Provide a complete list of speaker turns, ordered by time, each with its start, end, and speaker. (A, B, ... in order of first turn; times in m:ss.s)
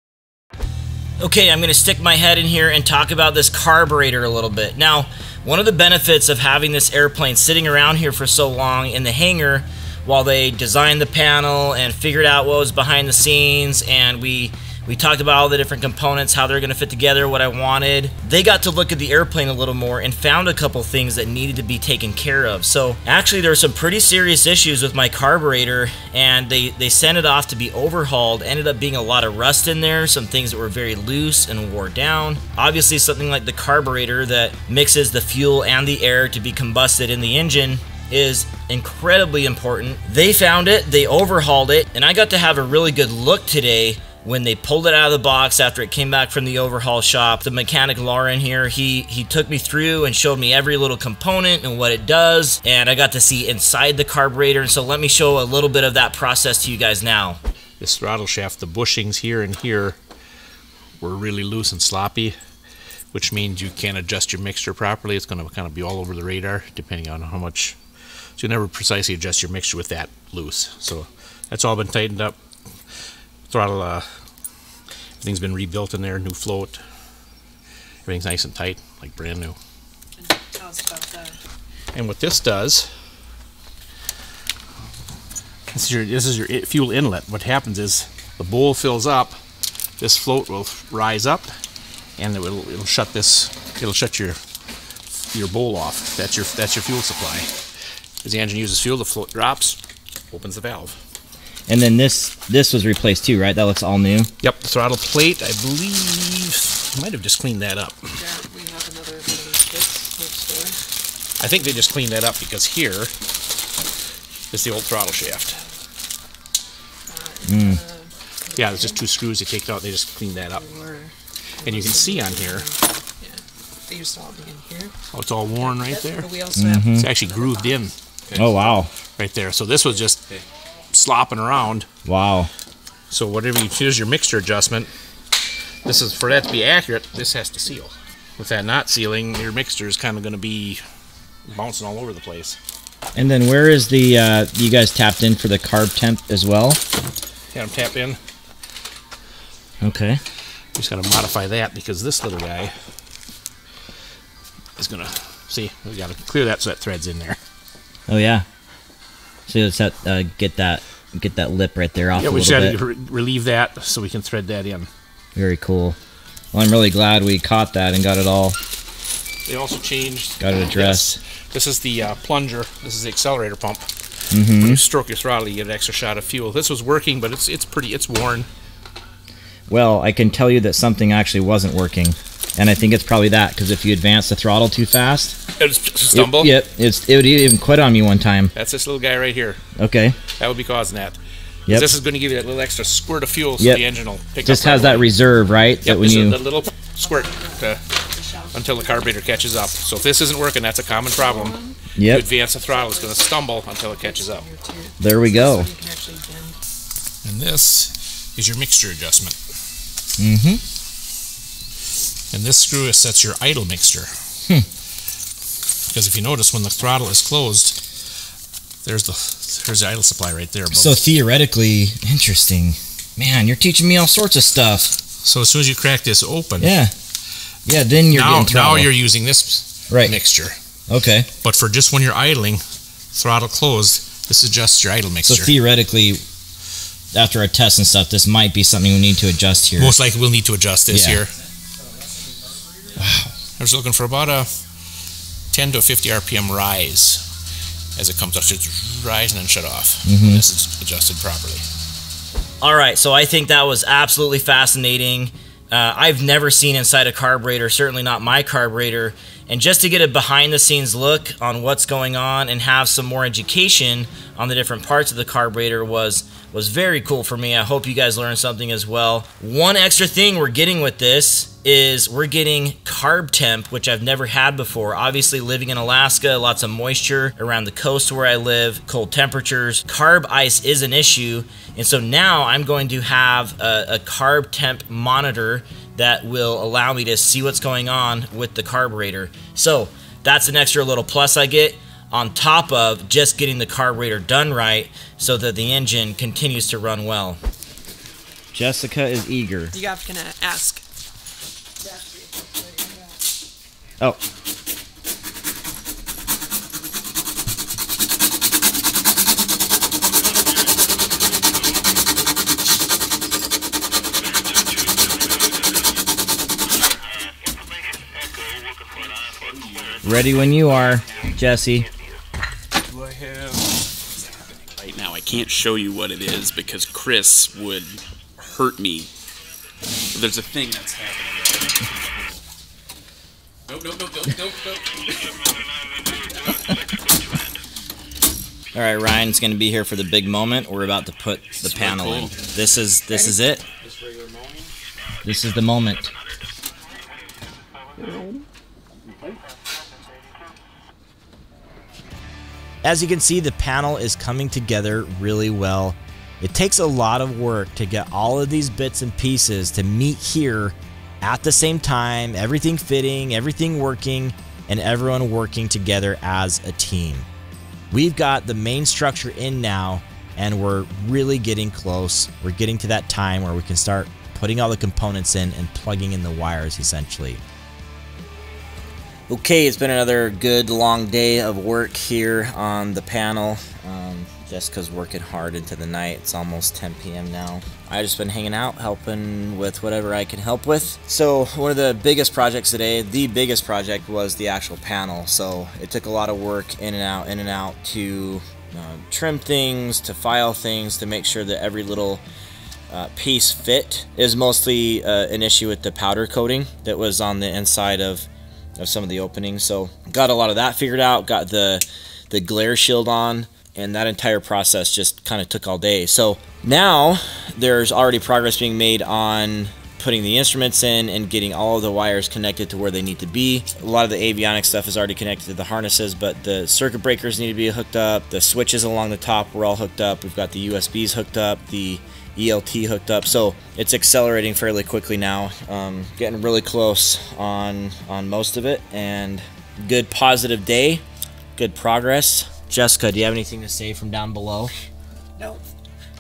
0:01.2-0:57.4 A
0:57.8-1:00.0 B
1:01.0-1:02.4 B
1:03.1-1:07.8 B
1:08.4-1:12.4 B
1:13.5-1:14.1 B
1:15.2-1:16.8 B
1:18.0-1:19.6 B
1:20.2-1:21.4 C
1:22.0-1:22.9 B
1:25.7-1:29.4 B
1:30.0-1:31.5 B
1:32.2-1:34.4 B
1:35.3-1:37.5 B
1:38.2-1:39.8 B
1:40.3-1:41.0 B
1:41.7-1:44.3 A
1:44.4-1:48.1 B
1:48.1-1:50.8 C
1:51.4-1:53.1 B
1:54.5-1:55.6 B
1:57.1-1:59.0 C
1:57.4-1:57.8 A
1:58.5-2:00.6 B
2:00.5-2:04.9 C
2:01.6-2:02.6 B
2:05.1-2:06.4 B
2:05.6-2:07.9 C
2:06.5-2:07.1 A
2:07.0-2:11.9 B
2:08.4-2:08.9 A
2:12.1-2:12.5 A
2:13.1-2:14.9 B
2:15.8-2:20.8 B
2:21.5-2:22.6 B
2:23.2-2:26.8 A
2:27.5-2:28.2 B
2:29.8-2:30.2 A
2:30.8-2:32.7 B
2:34.8-2:37.4 B
2:38.1-2:38.4 A
2:39.5-2:42.8 A
2:42.2-2:44.9 B
2:45.4-2:46.0 A
2:46.5-2:48.6 A
2:49.5-2:53.9 B
2:50.4-2:51.2 A
2:54.3-2:54.8 A
2:54.5-2:58.5 B
2:59.7-3:05.4 A
3:05.6-3:06.6 B
3:06.1-3:08.5 A
3:08.6-3:09.6 B
3:09.8-3:10.2 A
3:10.4-3:15.1 B
3:14.4-3:16.4 A
3:15.8-3:17.8 B
3:17.0-3:20.2 C
3:18.5-3:24.4 B
3:20.9-3:21.8 C
3:22.0-3:22.3 A
3:22.6-3:26.6 C
3:25.0-3:25.7 A
3:27.2-3:29.4 B
3:30.2-3:30.6 A
3:32.3-3:34.1 B
3:35.9-3:37.8 B
3:38.8-3:41.0 B
3:40.7-3:45.0 A
3:45.2-3:46.8 B
3:46.6-3:46.9 A
3:47.6-3:48.9 A
3:48.1-3:50.6 B
3:49.9-3:50.1 A
3:50.9-3:51.3 A
3:51.4-3:55.5 B
3:55.3-3:56.2 A
3:57.1-3:59.9 A
3:59.8-4:01.3 B
4:00.9-4:01.2 A
4:03.0-4:03.3 A
4:03.6-4:04.6 B
4:05.5-4:07.3 B
4:08.0-4:11.6 B
4:10.0-4:10.4 A
4:12.6-4:57.4 A
4:58.5-4:59.8 A
4:59.7-5:00.8 C
5:01.8-5:03.2 C
5:20.0-5:21.9 A
5:24.7-5:29.1 D
5:30.1-5:32.3 D
5:33.6-5:35.4 D
5:38.7-5:43.6 A
5:41.6-5:42.3 D
5:45.2-5:46.1 A
5:48.0-5:48.4 C
5:49.0-5:49.4 D
5:52.8-6:07.3 A
6:07.9-6:17.4 A
6:19.3-6:42.2 A
6:42.9-7:21.0 A
7:21.6-7:24.7 A
7:25.4-7:25.6 C